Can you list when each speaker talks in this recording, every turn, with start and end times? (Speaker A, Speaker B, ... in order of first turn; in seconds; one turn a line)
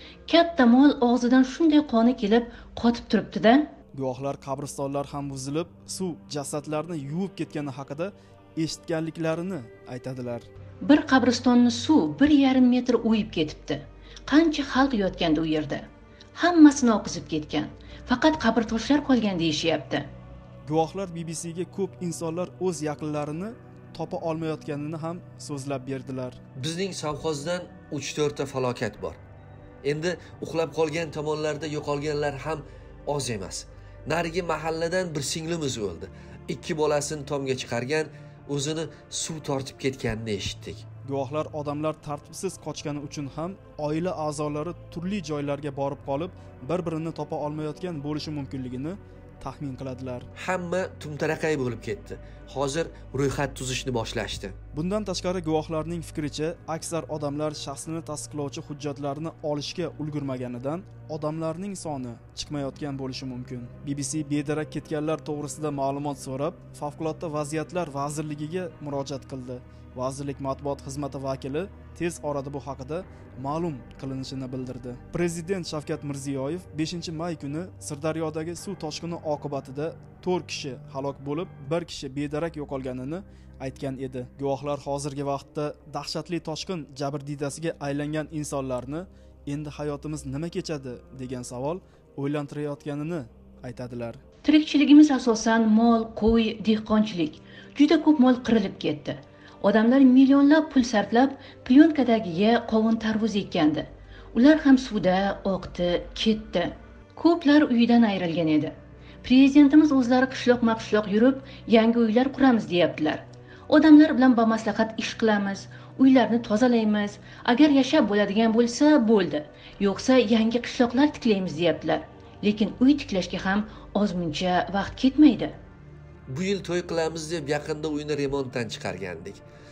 Speaker A: 0.3-3.7
Speaker B: 3.9-10.4
Speaker A: 10.8-20.1
Speaker B: 20.6-26.4
Speaker C: 26.6-29.2
Speaker C: 29.8-40.9
Speaker B: 41.0-50.3
Speaker C: 50.4-54.5
Speaker B: 54.7-94.2
Speaker A: 94.4-125.6
Speaker C: 126.3-129.4